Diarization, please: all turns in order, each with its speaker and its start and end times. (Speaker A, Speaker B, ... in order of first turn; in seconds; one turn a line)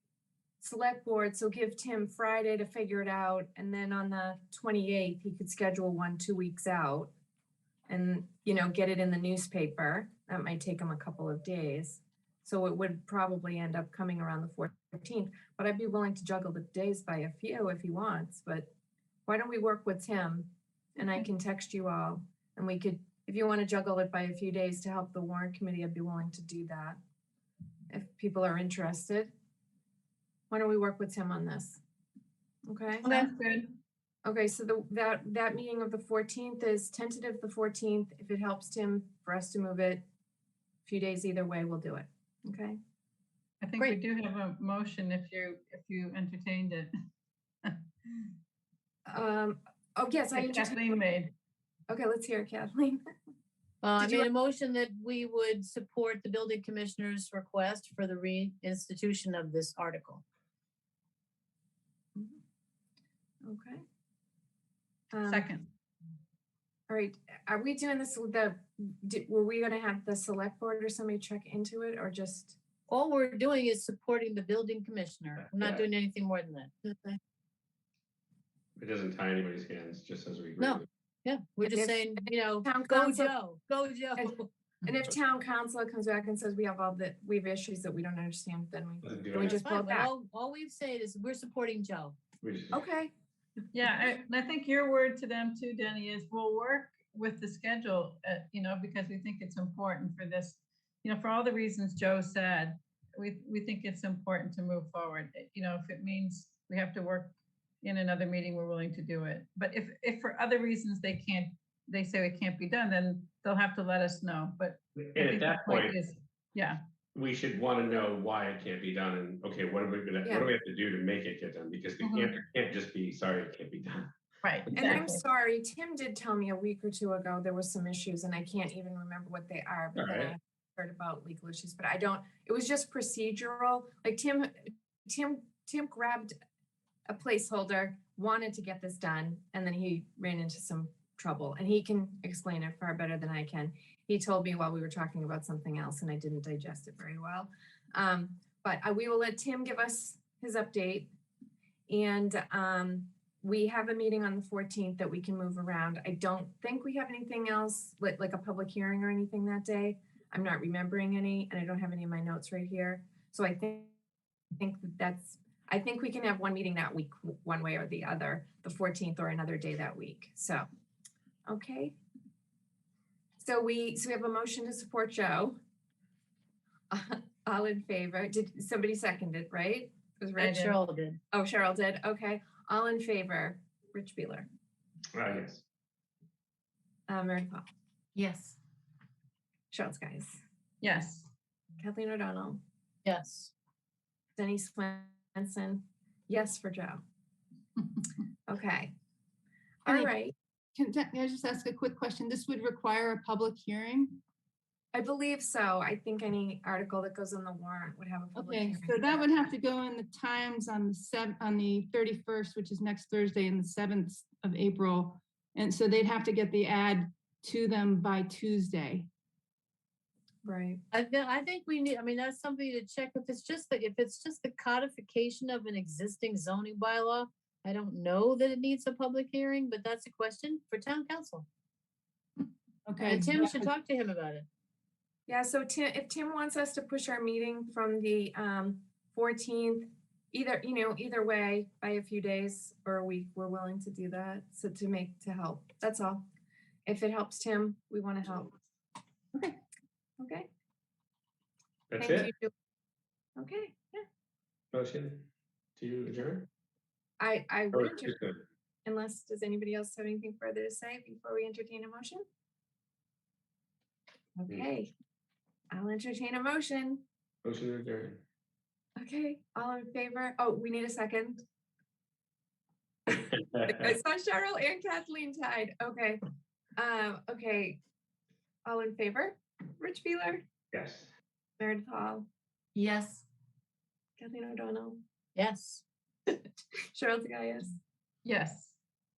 Speaker A: 0.6-7.1
Speaker A: 7.9-18.7
Speaker A: 19.3-27.0
Speaker A: 27.9-29.3
Speaker A: 30.5-31.8
Speaker A: 32.7-33.1
Speaker B: 33.0-33.3
Speaker C: 33.0-33.7
Speaker A: 34.2-40.0
Speaker A: 40.9-42.8
Speaker C: 43.6-46.9
Speaker A: 49.1-50.9
Speaker C: 50.3-51.3
Speaker A: 51.9-53.0
Speaker B: 53.8-60.2
Speaker A: 54.0-54.3
Speaker A: 63.4-63.8
Speaker A: 65.1-65.5
Speaker C: 65.2-65.7
Speaker A: 66.9-72.6
Speaker B: 72.9-77.2
Speaker D: 75.4-75.8
Speaker D: 78.8-80.8
Speaker B: 80.6-84.5
Speaker A: 81.6-83.3
Speaker A: 84.2-90.1
Speaker D: 89.0-89.6
Speaker B: 89.3-92.2
Speaker D: 92.4-92.8
Speaker A: 92.7-93.1
Speaker C: 93.7-116.8
Speaker D: 115.0-116.0
Speaker D: 117.1-124.1
Speaker C: 122.0-122.3
Speaker B: 124.4-125.0
Speaker A: 124.7-136.3
Speaker C: 124.8-125.2
Speaker D: 129.9-130.3
Speaker A: 137.1-151.1
Speaker A: 151.9-163.9
Speaker A: 164.6-170.7
Speaker A: 171.4-171.9
Speaker A: 173.4-175.6
Speaker A: 176.9-180.7
Speaker C: 180.4-180.8
Speaker B: 180.4-181.2
Speaker A: 181.3-184.4
Speaker D: 185.1-185.6
Speaker A: 187.1-187.7
Speaker B: 188.2-188.6
Speaker A: 189.7-190.4
Speaker C: 190.8-191.3
Speaker A: 191.8-192.6
Speaker B: 193.0-193.5
Speaker A: 194.4-197.0
Speaker A: 198.5-198.9
Speaker A: 199.8-200.3
Speaker E: 199.9-200.1
Speaker E: 200.7-204.2
Speaker A: 204.9-209.5
Speaker E: 208.3-219.1
Speaker A: 220.4-220.8
Speaker B: 220.9-231.4
Speaker E: 232.8-233.7
Speaker B: 233.0-234.4
Speaker A: 235.3-246.2
Speaker A: 246.8-248.5
Speaker A: 250.2-250.5
Speaker D: 251.9-252.3
Speaker A: 252.0-252.5
Speaker A: 253.4-254.0
Speaker D: 254.7-255.2
Speaker D: 255.8-256.5
Speaker A: 257.2-258.1
Speaker D: 257.7-258.4
Speaker A: 258.9-262.2
Speaker A: 264.4-264.9
Speaker A: 265.7-267.0
Speaker D: 267.4-268.2
Speaker A: 269.0-271.4
Speaker A: 273.1-276.2
Speaker D: 273.1-273.9
Speaker A: 276.8-277.8
Speaker A: 278.6-280.4
Speaker D: 280.7-281.1
Speaker A: 281.6-282.3
Speaker B: 282.7-283.2
Speaker A: 284.2-285.0
Speaker B: 285.4-285.8
Speaker A: 286.9-287.7
Speaker C: 288.2-288.7